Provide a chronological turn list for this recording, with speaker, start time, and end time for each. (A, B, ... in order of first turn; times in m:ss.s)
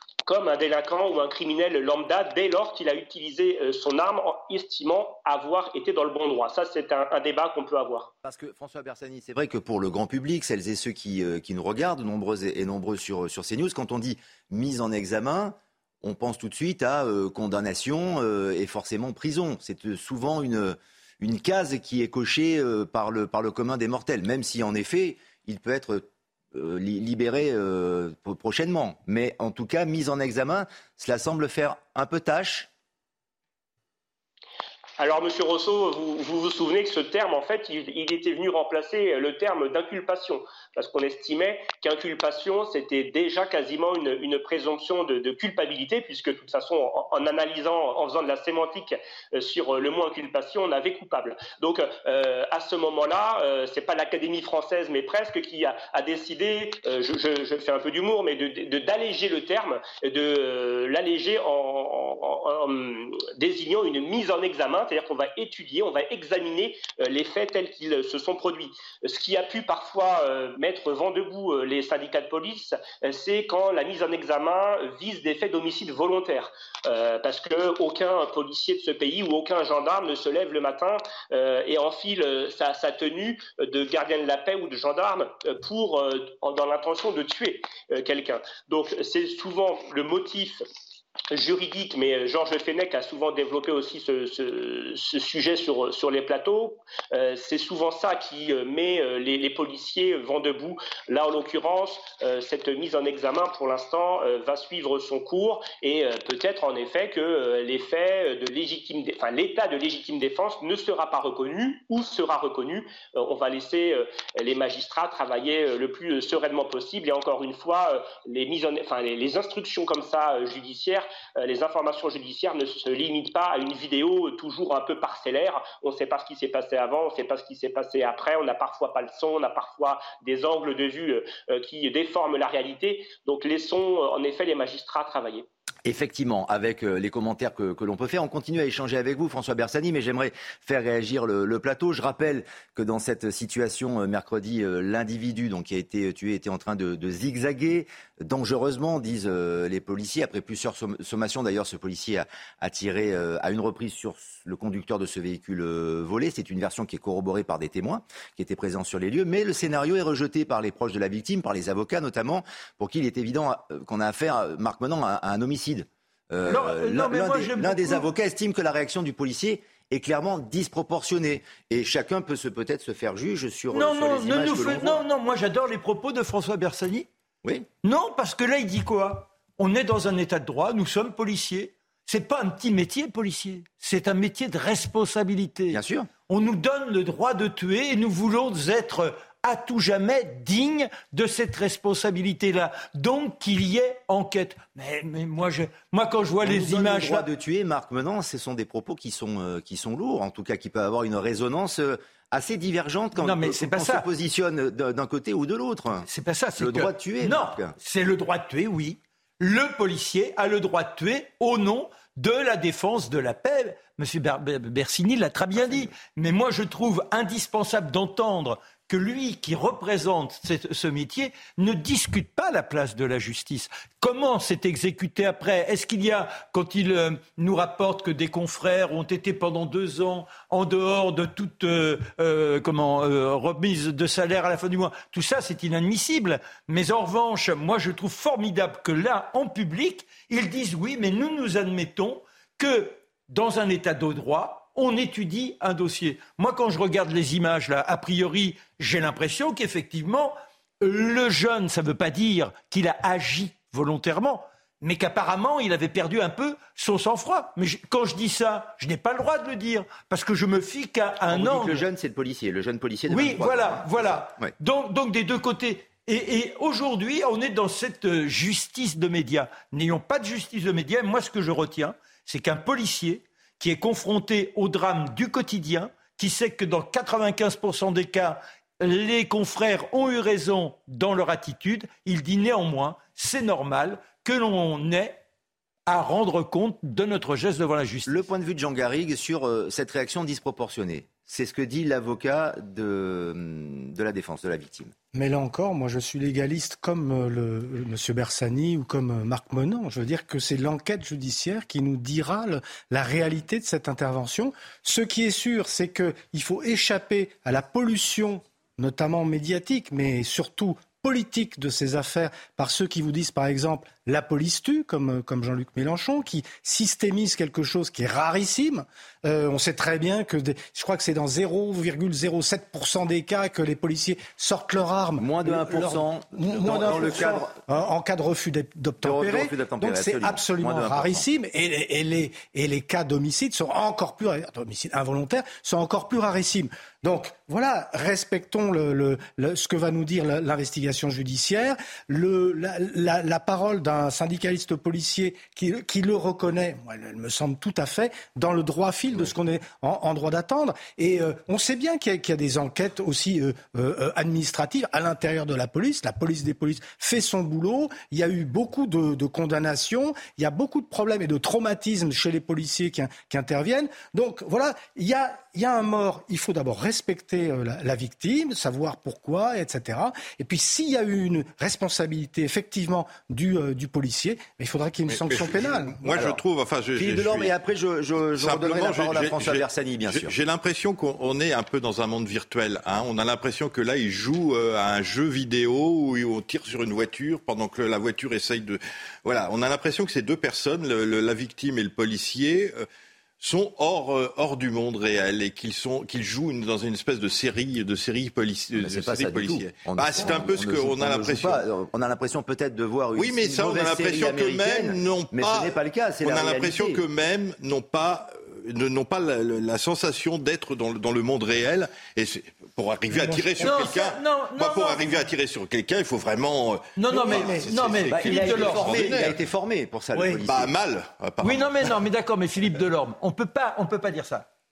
0:00.2-0:08.1 A
0:08.2-0:32.7 B
0:35.0-1:30.6 A
1:31.3-2:15.4 A
2:15.8-2:55.0 B
2:46.4-2:48.0 C
2:53.7-2:57.1 C
2:57.8-3:17.2 C
3:05.7-3:06.1 B
3:16.4-3:27.7 B
3:23.2-3:24.1 C
3:26.0-4:21.8 C
4:21.3-4:24.5 B
4:23.1-4:45.2 C
4:45.9-4:48.2 C
4:48.0-4:54.9 B
4:55.1-6:16.0 D
5:25.2-5:27.6 B
5:29.0-5:31.2 B
6:15.1-6:17.5 E
6:16.1-6:16.4 B
6:17.0-6:20.3 B
6:18.3-6:32.8 E
6:33.4-6:41.6 E
6:38.8-6:47.0 B
6:43.1-6:59.4 E
6:53.1-6:53.6 D
6:53.6-6:55.2 C
6:57.0-6:59.1 C
6:57.3-6:57.6 D
6:58.1-7:00.7 B
7:00.2-7:01.9 E
7:01.4-7:04.5 C